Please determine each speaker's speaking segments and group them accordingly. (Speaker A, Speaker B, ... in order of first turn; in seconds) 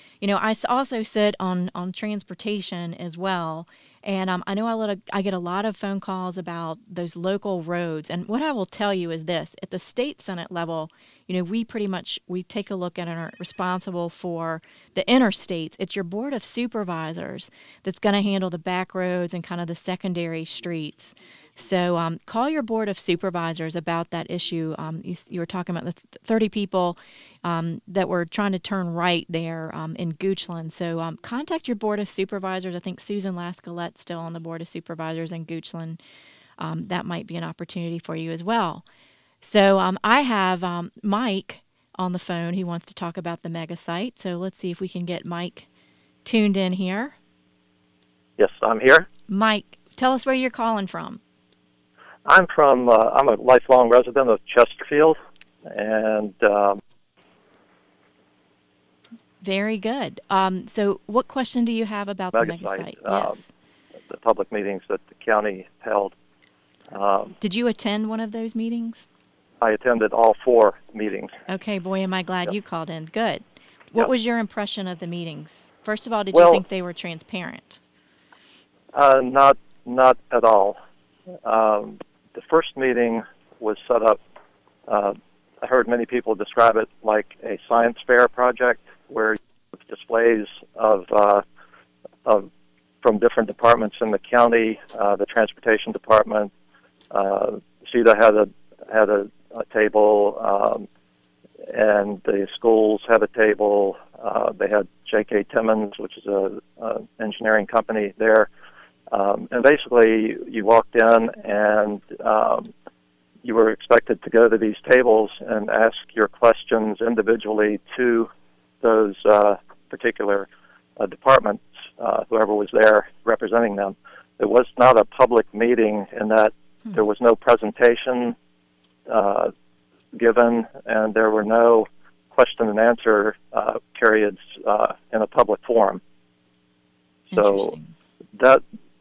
Speaker A: 0.2-36.0, 36.6-38.8, 39.4-45.7, 46.2-47.1, 49.3-51.2, 59.4-63.5, 67.4-69.0, 71.5-77.8, 137.3-137.9
Speaker B: 48.4-49.1, 52.2-55.2, 55.7-56.8, 62.3-63.4, 64.1-66.1, 66.9-67.3, 69.6-71.3, 76.3-76.6, 78.9-80.8, 81.4-84.2, 84.9-91.4, 93.0-96.5, 97.1-100.8, 101.7-108.5, 109.1-112.7, 113.4-118.3, 118.8-120.5, 121.0-128.3, 129.1-129.5, 130.1-136.0, 137.3-137.7, 138.4-138.6